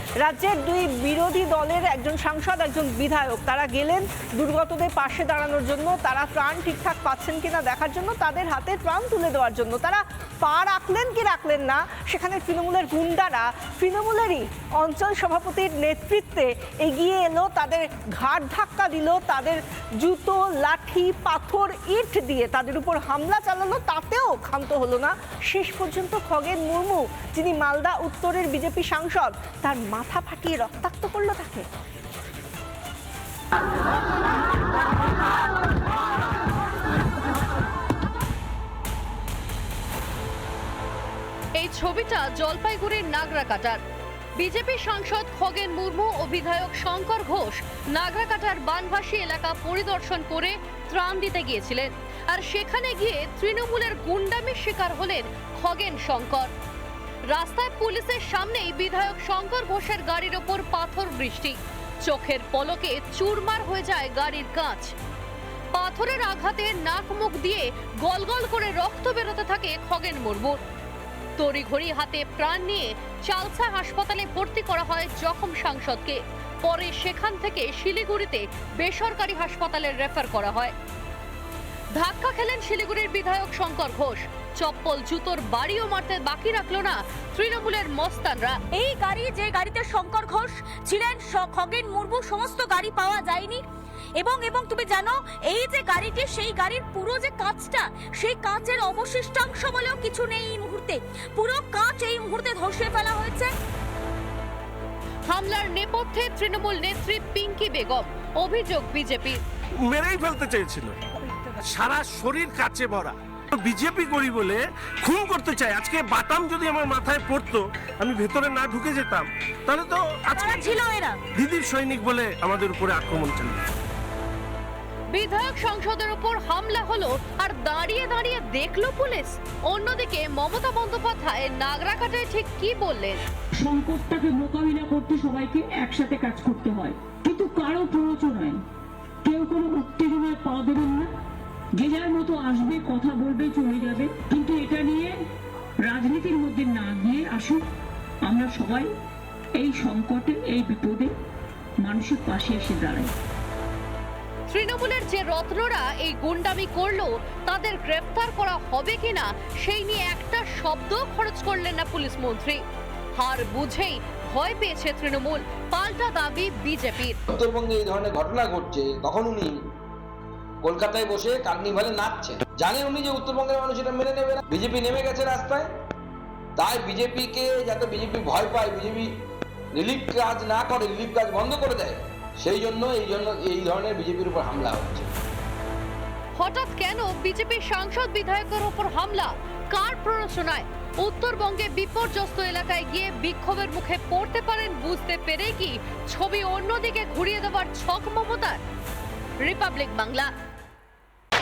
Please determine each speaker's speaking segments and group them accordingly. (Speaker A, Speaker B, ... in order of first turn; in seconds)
Speaker A: 0.2-31.7
Speaker B: 41.6-43.8, 44.4-56.5, 57.3-64.9, 65.7-70.6, 71.4-80.7, 82.0-88.6, 105.3-109.4, 125.1-133.2, 154.5-162.6, 163.2-167.2, 186.4-198.6, 199.4-200.3
Speaker C: 88.7-93.6, 94.2-103.5, 120.3-121.2
Speaker D: 109.8-111.0, 111.6-120.8, 121.4-123.7
Speaker E: 133.6-138.6, 139.2-141.1, 141.8-145.2, 145.8-147.7, 148.3-148.9, 149.6-151.1, 151.8-153.1
Speaker F: 167.3-169.6, 170.6-175.7, 176.6-179.1, 179.8-185.1